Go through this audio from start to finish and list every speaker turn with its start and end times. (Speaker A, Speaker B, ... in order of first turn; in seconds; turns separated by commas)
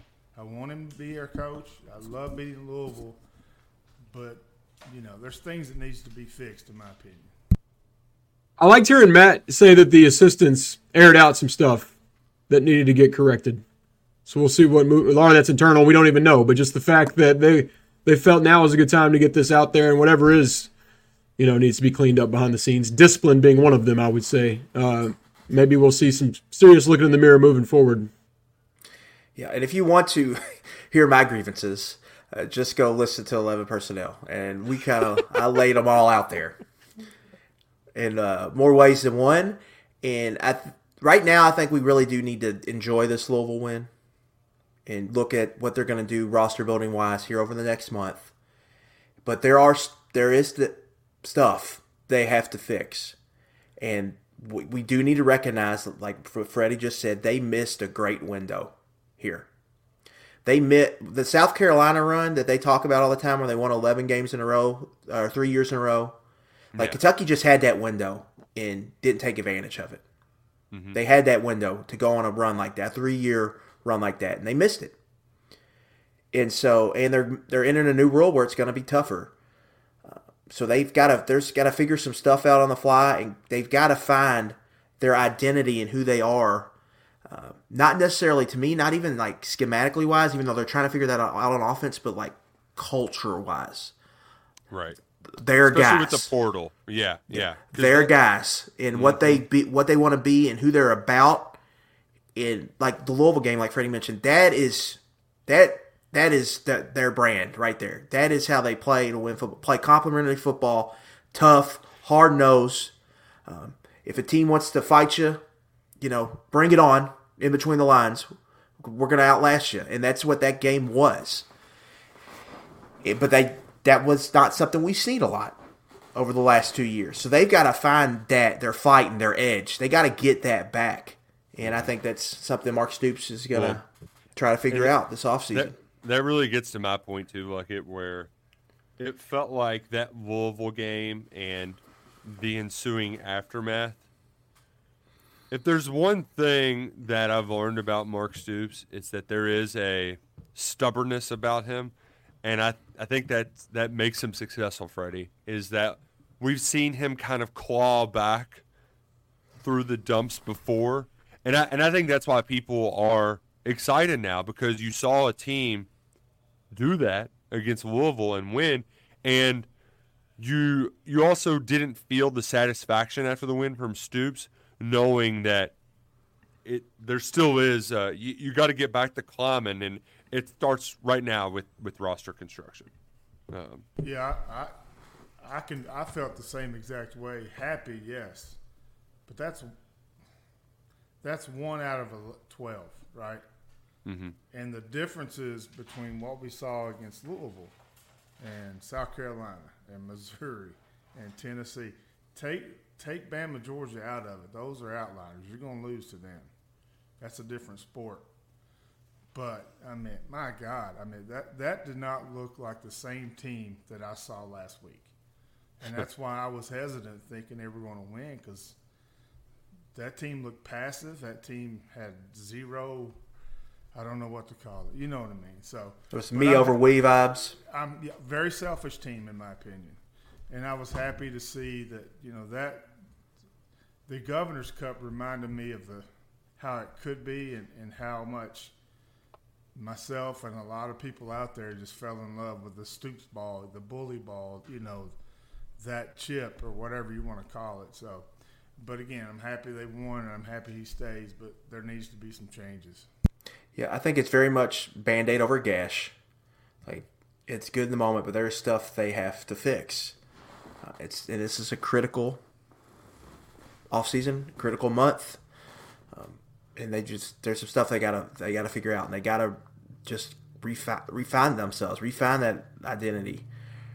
Speaker A: 0.3-3.2, Speaker A: 4.1-7.3, Speaker B: 8.6-11.9, Speaker B: 12.5-13.6, Speaker B: 14.2-20.7, Speaker B: 21.4-28.1, Speaker C: 29.4-36.6, Speaker C: 37.9-43.9, Speaker C: 44.9-48.3, Speaker C: 49.2-53.2, Speaker C: 53.8-59.5, Speaker C: 60.4-66.2, Speaker D: 66.7-67.0, Speaker C: 66.8-70.0, Speaker D: 70.7-71.0, Speaker C: 70.9-75.0, Speaker C: 76.3-79.3, Speaker C: 80.0-86.7, Speaker C: 87.3-93.9, Speaker D: 94.7-95.0, Speaker C: 95.3-96.3, Speaker D: 95.7-98.1, Speaker C: 97.3-101.6, Speaker D: 98.9-99.4, Speaker C: 102.3-112.9, Speaker C: 113.5-115.4, Speaker C: 116.0-121.5, Speaker C: 123.0-125.6, Speaker C: 126.1-133.8, Speaker D: 131.6-131.9, Speaker D: 133.5-133.8, Speaker C: 134.3-135.7, Speaker D: 134.7-135.0, Speaker D: 135.5-138.3, Speaker D: 139.0-144.0, Speaker D: 145.5-158.6, Speaker D: 159.6-165.9, Speaker D: 166.7-169.7, Speaker D: 170.4-175.7, Speaker D: 176.6-182.9, Speaker D: 183.5-183.8, Speaker A: 184.0-184.7, Speaker A: 185.4-188.6, Speaker A: 189.2-189.7, Speaker A: 191.2-193.4, Speaker D: 194.0-194.3, Speaker A: 194.5-197.7, Speaker A: 198.4-206.5, Speaker A: 207.2-208.3, Speaker A: 209.3-215.1, Speaker A: 215.8-218.8, Speaker A: 219.9-223.2, Speaker A: 223.9-226.8, Speaker C: 226.1-227.6, Speaker A: 227.7-232.9, Speaker A: 234.1-236.1, Speaker A: 236.6-238.7, Speaker A: 239.7-245.1, Speaker A: 245.8-248.3, Speaker A: 248.8-253.1, Speaker C: 253.7-256.1, Speaker C: 256.8-260.1, Speaker C: 260.8-262.4, Speaker C: 263.9-265.4, Speaker C: 266.1-273.5